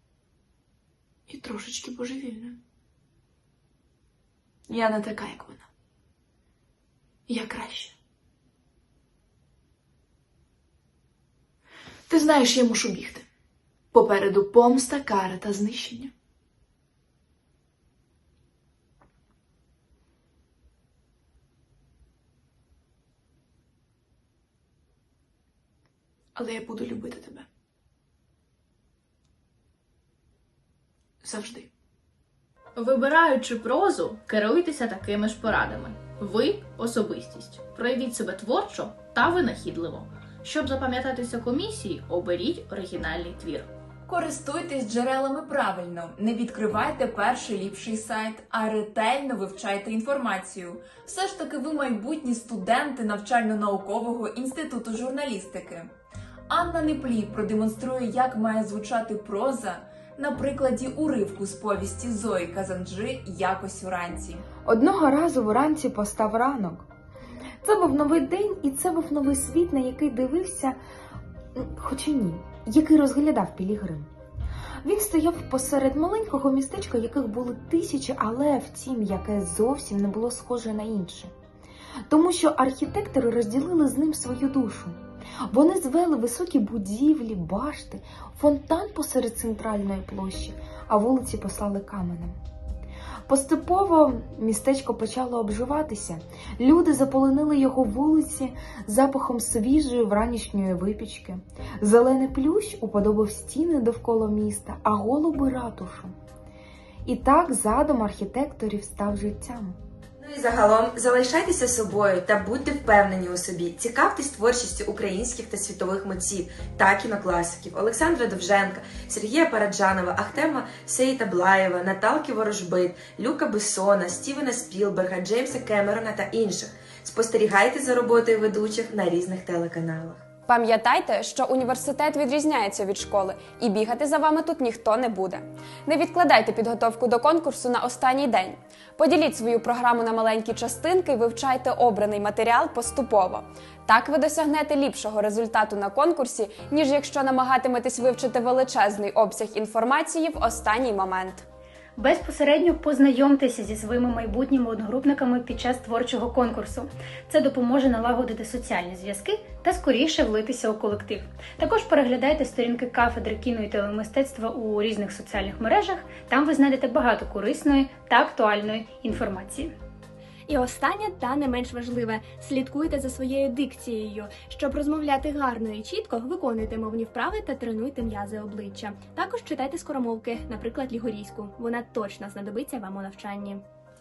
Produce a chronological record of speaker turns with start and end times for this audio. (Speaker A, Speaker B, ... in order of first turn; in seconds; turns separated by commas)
Speaker A: 1.3-2.6, Speaker A: 4.7-5.7, Speaker A: 7.3-7.9, Speaker A: 12.1-13.2, Speaker A: 13.9-16.1, Speaker A: 26.3-27.4, Speaker A: 31.2-31.7, Speaker B: 32.8-43.7, Speaker C: 44.1-55.8, Speaker C: 56.5-64.4, Speaker D: 64.6-66.9, Speaker D: 67.6-70.8, Speaker D: 71.5-74.1, Speaker D: 74.8-81.3, Speaker D: 82.1-92.3, Speaker D: 93.3-106.1, Speaker D: 107.0-109.8, Speaker E: 110.2-130.2, Speaker F: 130.5-151.4, Speaker G: 152.0-169.7, Speaker H: 170.5-183.6